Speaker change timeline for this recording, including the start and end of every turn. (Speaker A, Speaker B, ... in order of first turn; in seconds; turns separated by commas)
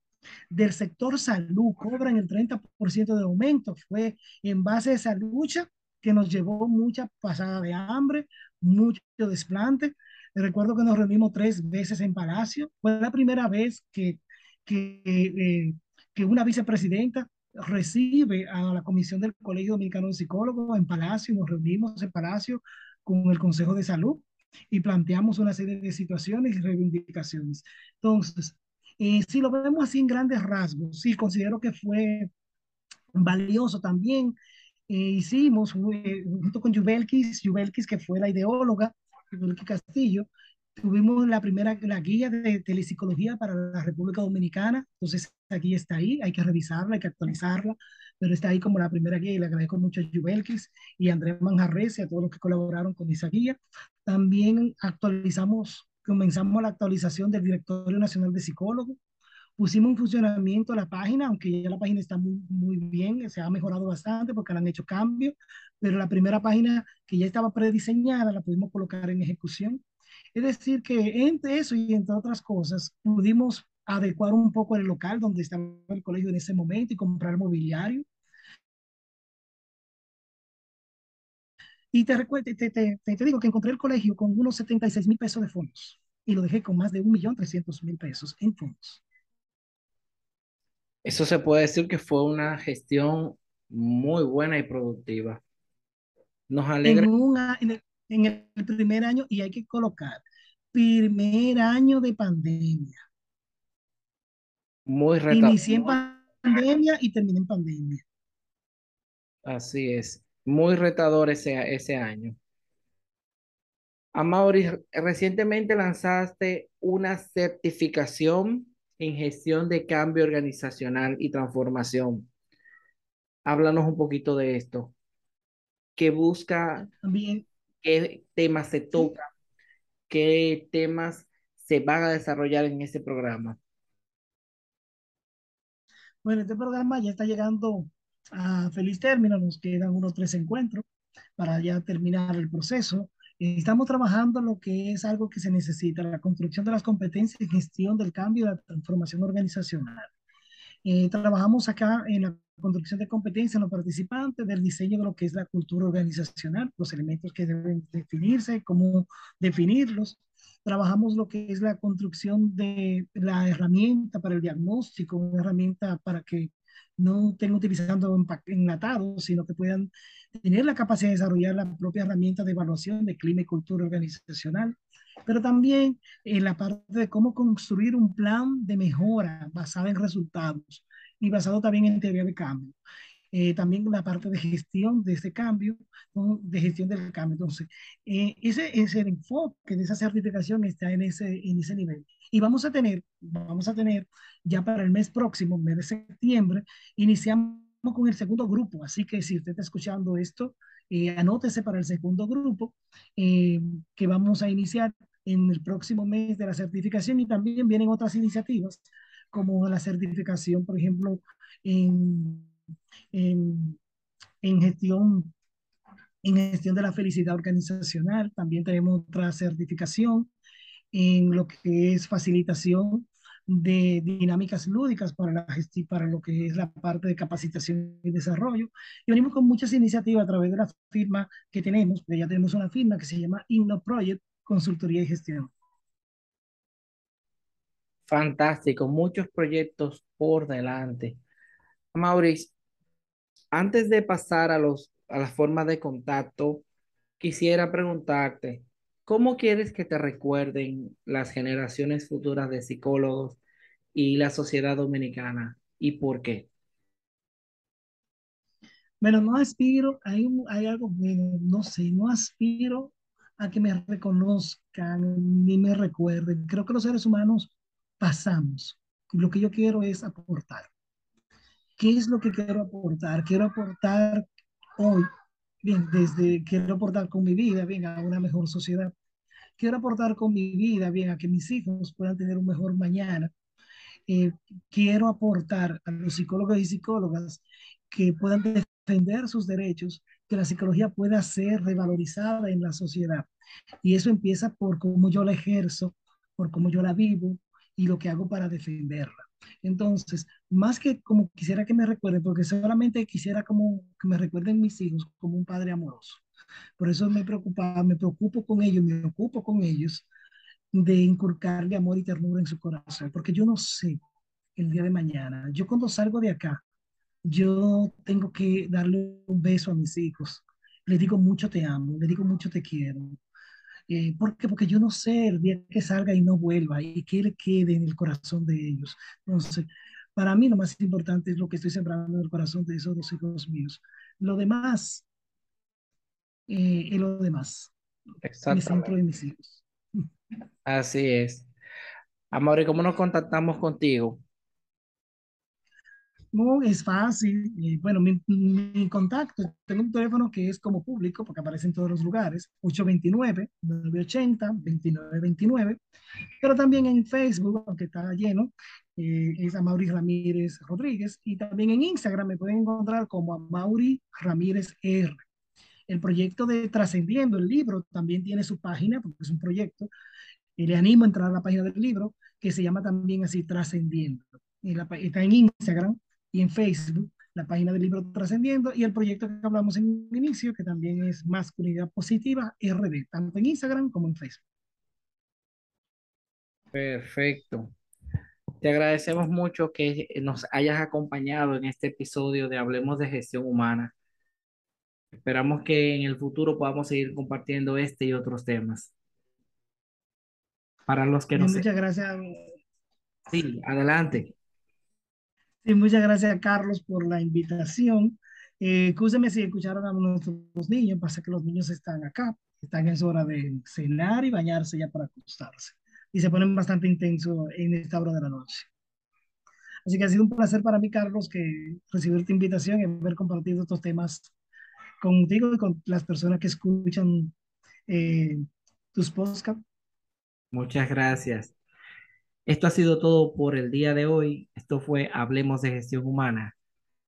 Speaker A: 0.5-32.3, Speaker A: 33.1-34.4, Speaker A: 34.9-59.0, Speaker A: 59.6-69.8, Speaker A: 70.3-78.0, Speaker A: 81.9-89.0, Speaker B: 91.0-95.4, Speaker B: 96.5-97.1, Speaker A: 96.8-100.2, Speaker A: 100.7-103.0, Speaker B: 104.9-106.0, Speaker A: 105.3-108.0, Speaker B: 109.5-112.4, Speaker B: 114.2-122.3, Speaker B: 123.5-124.9, Speaker B: 126.0-126.9, Speaker A: 127.0-127.5, Speaker B: 127.8-129.3, Speaker B: 130.1-133.6, Speaker A: 136.2-140.9, Speaker A: 141.4-150.1, Speaker A: 150.8-182.8, Speaker A: 183.3-212.5, Speaker A: 213.1-213.8, Speaker A: 214.4-215.3, Speaker A: 216.2-220.3, Speaker A: 220.9-235.5, Speaker B: 238.1-241.2, Speaker B: 241.9-242.5, Speaker B: 243.5-246.6, Speaker B: 247.2-253.4, Speaker B: 253.9-256.5, Speaker A: 259.0-270.7, Speaker A: 271.8-274.3, Speaker A: 274.8-275.1, Speaker A: 275.6-278.9, Speaker A: 279.6-283.3, Speaker A: 284.1-293.3, Speaker A: 293.8-306.2, Speaker A: 306.8-310.1, Speaker A: 310.7-314.0, Speaker A: 314.6-316.6, Speaker A: 317.2-323.2, Speaker A: 323.9-335.1, Speaker A: 336.5-337.7, Speaker B: 338.2-338.9, Speaker A: 338.5-340.0, Speaker B: 340.6-341.5, Speaker B: 342.3-344.2, Speaker A: 346.3-355.8, Speaker A: 356.4-365.2, Speaker A: 365.9-369.9, Speaker A: 370.6-384.4, Speaker B: 386.7-387.7, Speaker B: 388.6-393.9, Speaker B: 395.1-398.9, Speaker B: 400.9-401.6, Speaker A: 401.4-402.4, Speaker B: 403.3-404.3, Speaker A: 405.6-418.7, Speaker A: 419.9-424.3, Speaker A: 425.0-427.3, Speaker A: 427.9-428.4, Speaker A: 428.9-429.6, Speaker B: 430.5-431.5, Speaker B: 432.5-436.5